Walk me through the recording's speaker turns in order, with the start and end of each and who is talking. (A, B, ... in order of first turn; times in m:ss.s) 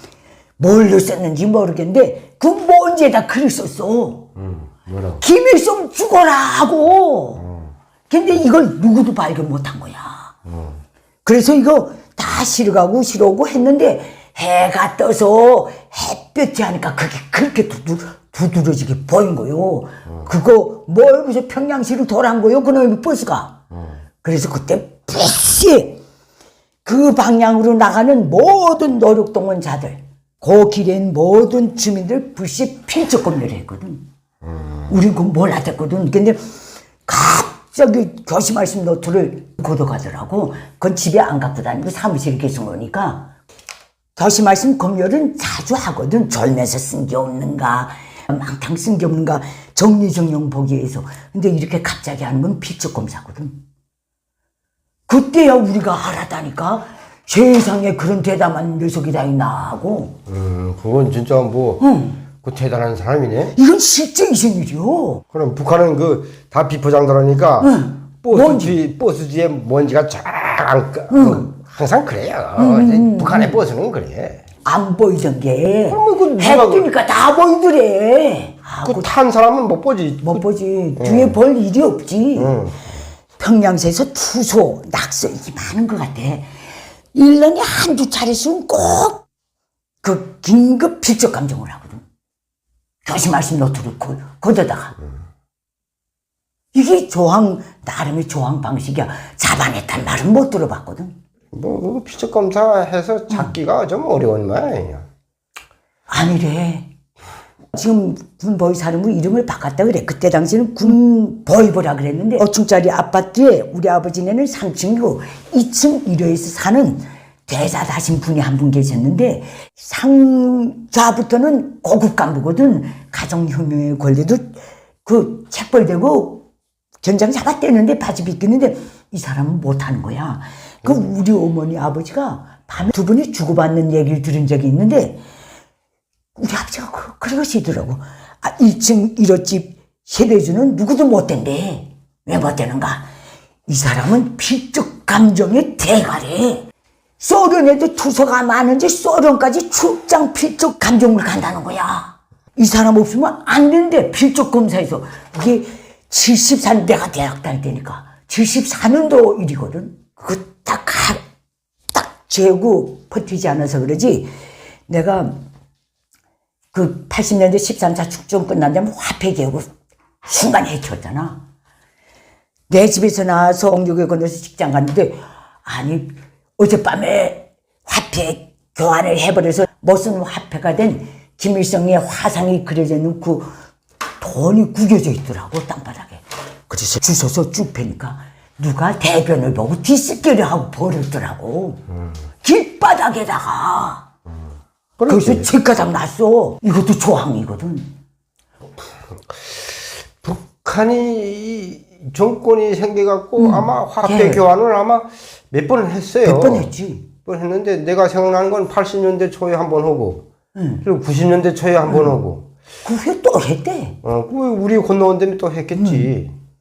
0:00.6-0:04.3 A
0:04.4-0:05.2 B
0:05.2-0:07.5 A
0:08.1-0:10.3 A
0:11.2-0:23.6 A
0:24.2-0:26.0 A
0:26.8-0:34.0 A
0:34.9-0:36.4 A
0:37.1-0:43.3 A
0:44.2-0:53.6 A
0:55.1-1:00.2 A
1:00.3-1:01.8 B
1:01.8-1:02.2 A
1:02.4-1:03.6 B
1:03.6-1:05.2 A
1:05.3-1:14.4 B
1:07.6-1:08.8 A
1:11.1-1:11.5 A
1:12.6-1:13.6 A
1:14.6-1:19.1 A
1:15.9-1:16.9 B
1:18.8-1:20.4 B
1:20.2-1:22.6 A
1:21.0-1:21.4 B
1:22.4-1:22.8 B
1:23.4-1:26.5 A
1:27.1-1:29.2 A
1:30.0-1:32.0 A
1:33.0-1:35.0 A
1:36.7-1:41.1 A
1:41.5-1:45.0 B
1:46.1-1:46.9 A
1:47.7-2:06.5 A
2:07.0-2:15.2 A
2:16.4-2:23.0 A
2:23.7-2:26.7 A
2:27.2-2:41.2 A
2:41.9-2:44.3 A
2:44.9-2:45.4 A
2:46.7-2:49.7 A
2:50.2-2:51.4 A
2:52.7-3:03.5 A
3:04.2-3:11.8 A
3:12.4-3:14.1 A
3:15.0-3:15.5 B
3:15.1-3:17.9 A
3:20.2-3:26.7 B
3:23.4-3:24.4 A
3:26.2-3:27.1 A
3:27.2-3:30.3 B
3:30.6-3:30.8 A
3:30.8-3:32.5 B
3:31.9-3:32.2 A
3:32.8-3:34.0 A
3:34.0-3:36.3 B
3:35.8-3:36.1 A